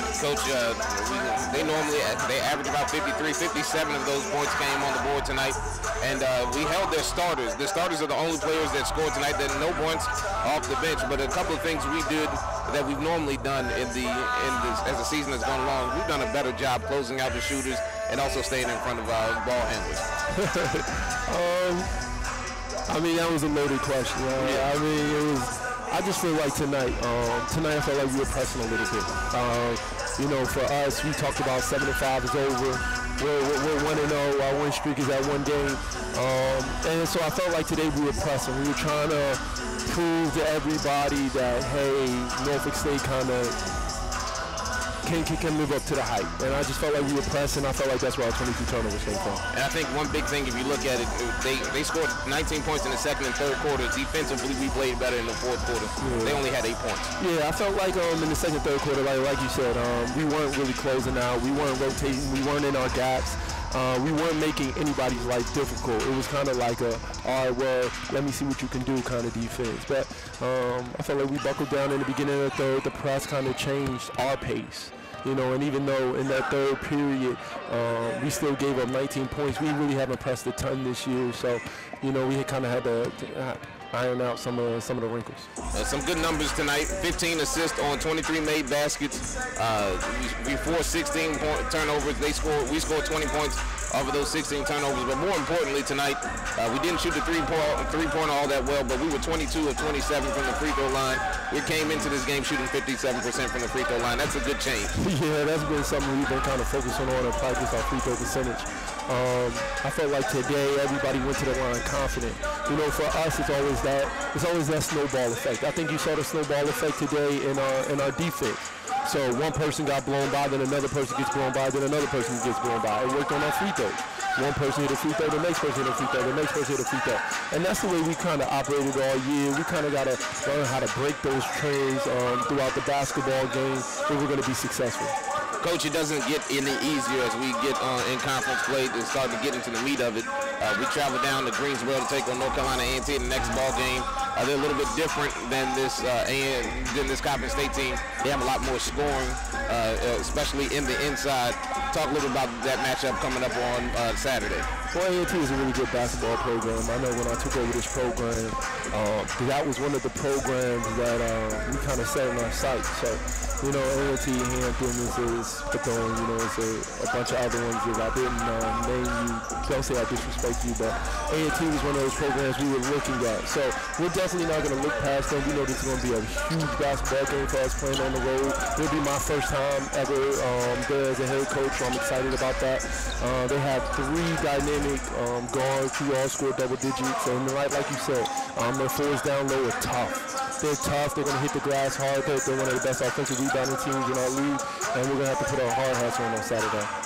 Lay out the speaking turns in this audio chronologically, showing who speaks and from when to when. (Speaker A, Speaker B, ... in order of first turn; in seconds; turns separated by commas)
Speaker A: 0.1-20.1, Speaker B: 20.4-21.9, Speaker B: 22.9-43.6, Speaker A: 24.4-24.7, Speaker B: 45.0-49.4, Speaker A: 49.5-57.1, Speaker B: 56.0-56.4, Speaker B: 57.2-85.5, Speaker A: 85.7-105.0, Speaker B: 105.0-135.2, Speaker A: 135.6-154.7, Speaker B: 154.9-196.9